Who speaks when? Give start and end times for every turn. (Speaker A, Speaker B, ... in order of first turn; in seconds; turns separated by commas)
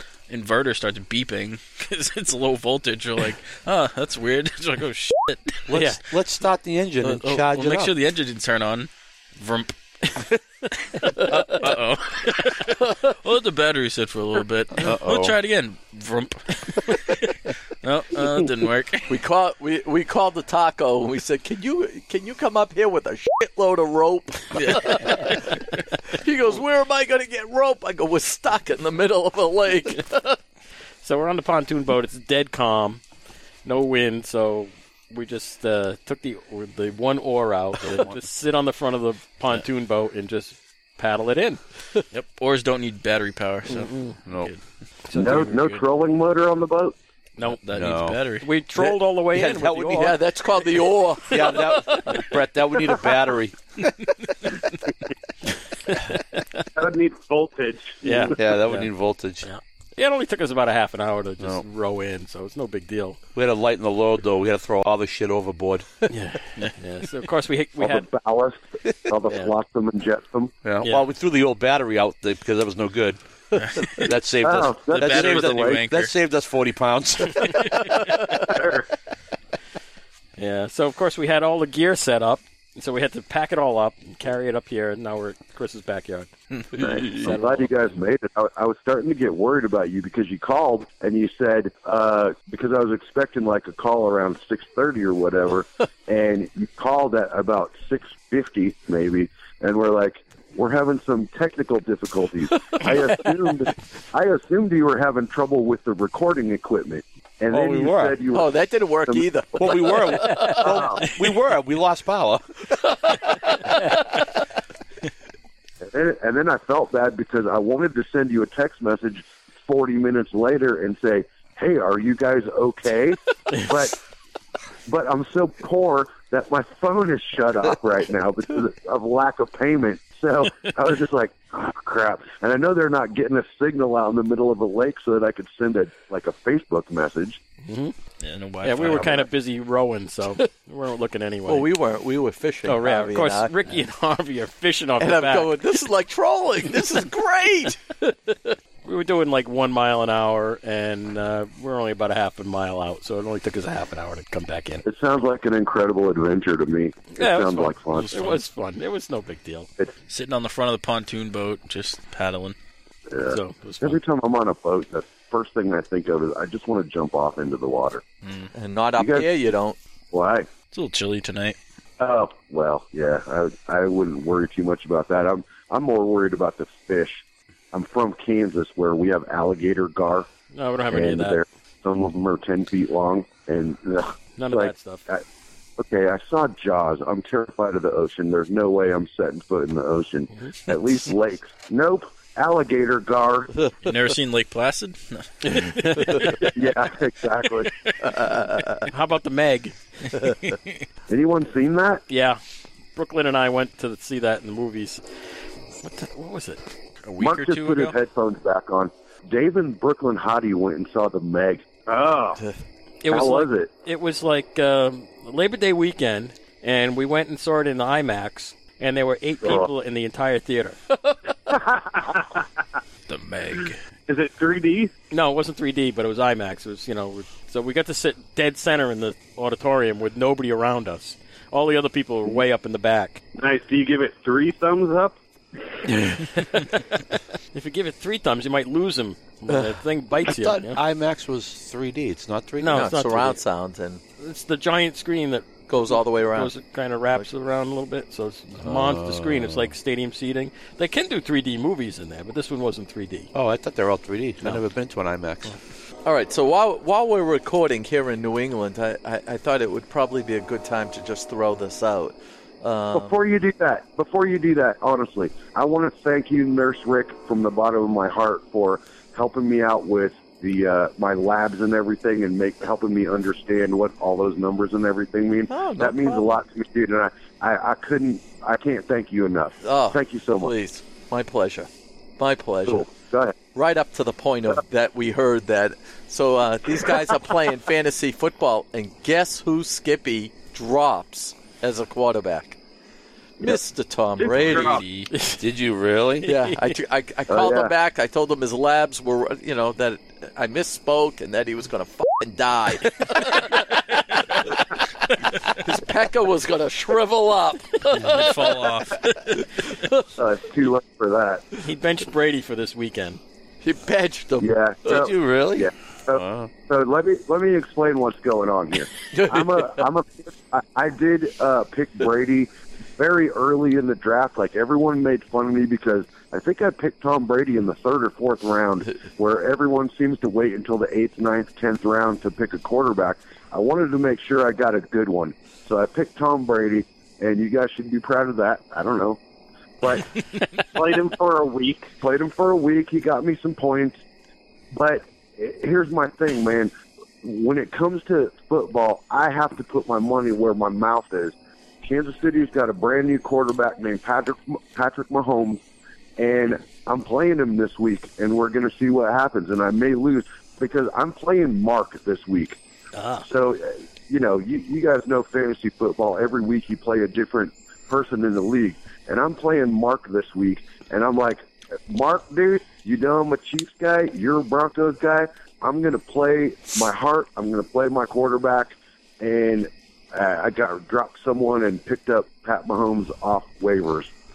Speaker A: 0.3-5.8, Speaker B: 5.7-7.9, Speaker C: 5.7-6.0, Speaker A: 7.0-19.2, Speaker B: 14.8-15.4, Speaker D: 19.1-30.4, Speaker A: 24.5-25.6, Speaker C: 31.0-33.0, Speaker C: 33.6-41.6, Speaker B: 37.8-38.2, Speaker A: 42.1-44.6, Speaker C: 43.7-44.1, Speaker B: 44.2-44.5, Speaker C: 45.1-45.6, Speaker E: 45.1-47.0, Speaker A: 45.3-45.7, Speaker A: 47.4-48.5, Speaker B: 47.7-48.2, Speaker C: 48.4-50.2, Speaker B: 48.8-50.2, Speaker D: 49.9-51.7, Speaker B: 51.3-53.6, Speaker C: 55.9-56.4, Speaker F: 56.7-58.3, Speaker C: 58.0-58.9, Speaker B: 58.3-59.5, Speaker C: 59.4-63.2, Speaker B: 63.3-65.9, Speaker C: 66.1-68.1, Speaker E: 67.8-70.5, Speaker C: 69.3-69.5, Speaker B: 70.6-73.2, Speaker A: 73.5-74.2, Speaker B: 73.8-78.1, Speaker E: 74.4-75.8, Speaker A: 74.9-76.1, Speaker C: 80.4-86.3, Speaker A: 86.6-87.2, Speaker E: 86.8-109.8, Speaker D: 87.2-87.7, Speaker B: 107.5-108.2, Speaker D: 108.3-110.8, Speaker B: 109.6-113.2, Speaker E: 110.5-111.0, Speaker E: 115.8-124.0, Speaker E: 124.9-137.4, Speaker C: 137.7-137.9, Speaker A: 138.2-139.3, Speaker C: 138.6-141.7, Speaker D: 141.4-143.5, Speaker C: 142.6-145.6, Speaker D: 145.0-147.8, Speaker C: 148.8-154.8, Speaker E: 154.8-158.3, Speaker C: 157.1-159.7, Speaker A: 160.1-162.6, Speaker E: 163.1-168.0, Speaker C: 163.3-164.0, Speaker A: 168.2-168.5, Speaker D: 168.5-169.8, Speaker E: 169.0-169.3, Speaker E: 170.1-170.5, Speaker A: 170.7-171.6, Speaker E: 172.0-180.3, Speaker C: 180.5-181.4, Speaker E: 180.9-185.2, Speaker C: 184.4-185.1, Speaker E: 185.8-193.6, Speaker A: 193.8-196.3, Speaker C: 195.4-196.4, Speaker E: 196.4-197.7, Speaker D: 198.0-198.8, Speaker C: 198.9-199.7, Speaker A: 200.2-200.7, Speaker E: 201.1-202.0, Speaker C: 202.1-202.4, Speaker C: 202.9-205.0, Speaker C: 205.8-206.6, Speaker A: 207.0-207.9, Speaker E: 207.2-211.6, Speaker F: 211.9-212.4, Speaker C: 213.0-220.8, Speaker E: 213.1-213.7, Speaker F: 221.5-222.3, Speaker A: 223.1-223.8, Speaker F: 224.1-224.9, Speaker C: 225.1-233.2, Speaker F: 233.3-235.2, Speaker C: 235.9-240.8, Speaker B: 240.2-242.9, Speaker C: 242.6-243.4, Speaker D: 242.7-244.0, Speaker C: 244.2-253.3, Speaker D: 245.7-246.5, Speaker B: 248.6-249.7, Speaker B: 253.3-255.5, Speaker D: 256.0-263.2, Speaker E: 262.9-280.5, Speaker D: 275.5-276.4, Speaker D: 279.6-282.9, Speaker E: 282.6-283.4, Speaker D: 283.5-292.6, Speaker D: 293.4-294.8, Speaker F: 294.2-294.8, Speaker A: 294.2-295.2, Speaker C: 295.1-295.4, Speaker B: 295.4-296.3, Speaker C: 296.2-296.7, Speaker D: 296.2-303.8, Speaker E: 297.3-297.7, Speaker D: 305.5-308.7, Speaker A: 307.9-309.4, Speaker D: 309.6-310.1, Speaker E: 310.1-311.4, Speaker C: 311.6-313.2, Speaker D: 313.6-315.1, Speaker E: 314.4-339.2, Speaker B: 314.9-316.5, Speaker D: 319.1-319.9, Speaker E: 339.8-340.2, Speaker F: 340.6-341.9, Speaker E: 342.0-344.0, Speaker E: 344.7-355.6, Speaker E: 356.2-362.6, Speaker C: 362.9-363.3, Speaker E: 363.2-384.1